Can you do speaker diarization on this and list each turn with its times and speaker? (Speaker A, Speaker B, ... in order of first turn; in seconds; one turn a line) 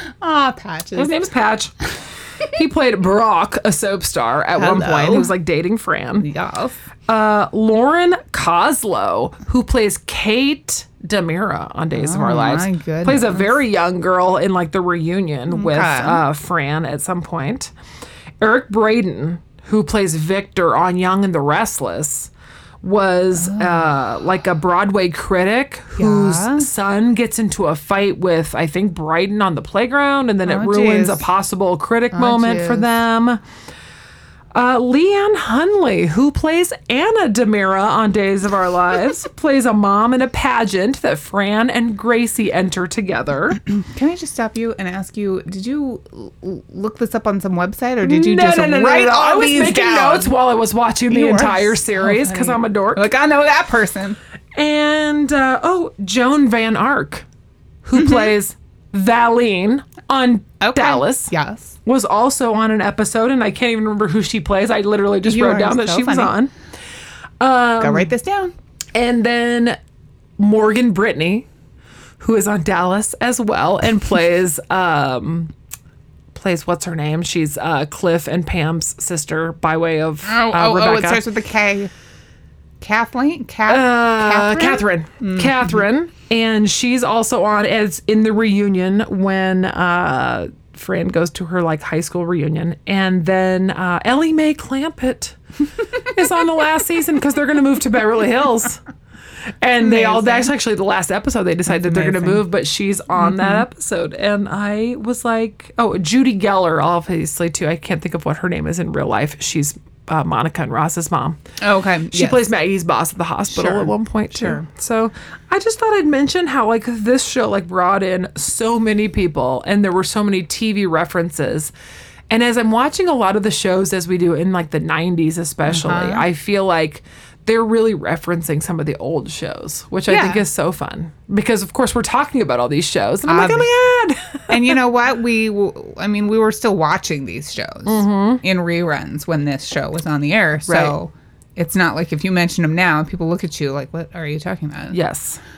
Speaker A: 0.2-1.1
Speaker B: 0.9-1.8
Speaker B: 2.5-6.3
Speaker A: 4.5-5.3
Speaker A: 6.2-6.8
Speaker B: 7.1-17.7
Speaker A: 11.9-13.5
Speaker A: 15.5-16.2
Speaker B: 18.4-33.4
Speaker A: 23.4-23.9
Speaker A: 25.9-26.7
Speaker A: 30.4-31.3
Speaker A: 32.1-32.9
Speaker B: 34.5-43.6
Speaker A: 43.6-50.3
Speaker B: 48.0-53.1
Speaker A: 51.1-54.2
Speaker B: 54.5-57.2
Speaker B: 57.8-61.3
Speaker A: 58.0-58.3
Speaker A: 60.6-61.8
Speaker B: 61.8-66.5
Speaker A: 65.2-66.3
Speaker B: 67.4-68.1
Speaker A: 67.8-68.5
Speaker B: 68.9-69.8
Speaker B: 70.4-71.5
Speaker B: 72.2-75.5
Speaker B: 76.3-81.2
Speaker A: 80.2-81.9
Speaker A: 82.8-85.8
Speaker B: 83.7-95.4
Speaker B: 96.0-98.8
Speaker B: 99.6-111.4
Speaker A: 99.8-100.5
Speaker A: 101.7-102.4
Speaker A: 103.2-103.6
Speaker A: 111.6-112.5
Speaker B: 112.1-121.7
Speaker A: 113.5-114.6
Speaker B: 122.3-134.8
Speaker A: 125.7-126.2
Speaker A: 130.1-130.4
Speaker A: 133.3-133.7
Speaker A: 134.5-145.0
Speaker B: 137.8-138.4
Speaker B: 140.7-140.9
Speaker B: 144.9-145.4